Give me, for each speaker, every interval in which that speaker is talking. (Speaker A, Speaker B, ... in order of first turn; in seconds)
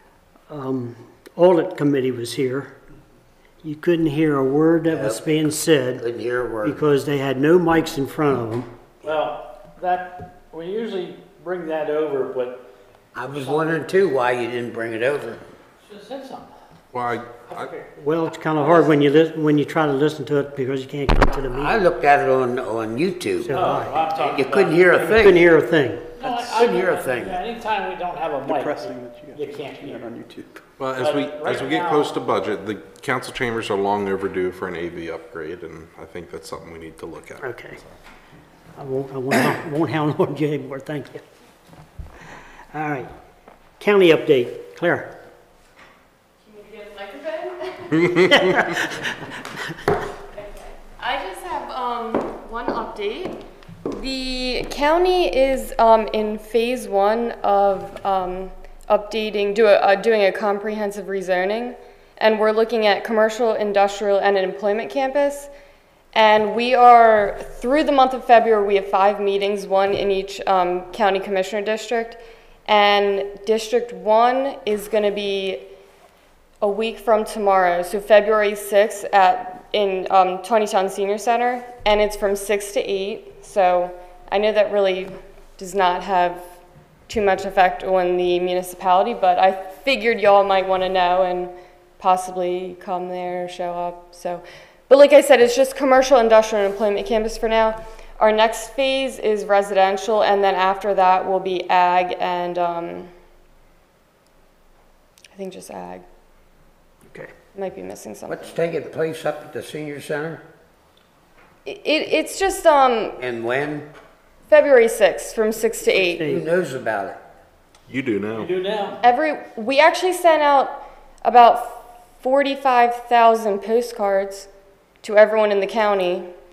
Speaker A: 0.5-2.8, 3.6-6.1, 6.6-8.7, 18.0-21.8, 23.4-24.0, 25.1-26.1, 37.4-37.8, 38.8-41.2, 42.7-43.1, 43.8-45.1, 48.3-49.1, 116.0-116.4
Speaker B: 4.9-5.2, 6.0-6.8, 13.2-15.4, 21.5-23.6, 24.2-25.4, 26.2-27.4, 108.3-110.4, 113.2-113.9, 116.2-117.2
Speaker C: 9.0-12.7, 13.3-13.9, 15.8-16.5, 17.5-17.9, 18.6-19.0, 23.5-25.1, 26.2-30.1, 31.0-32.1, 118.3-119.0
Speaker D: 16.9-17.7, 30.8-37.8, 117.9-118.5
Speaker E: 28.4-30.6
Speaker F: 46.4-48.4, 50.3-65.5, 66.1-75.7, 76.6-86.4, 87.1-103.1, 105.3-106.0, 107.5-108.5, 111.7-113.2, 114.5-116.2, 119.0-124.5, 125.0-126.3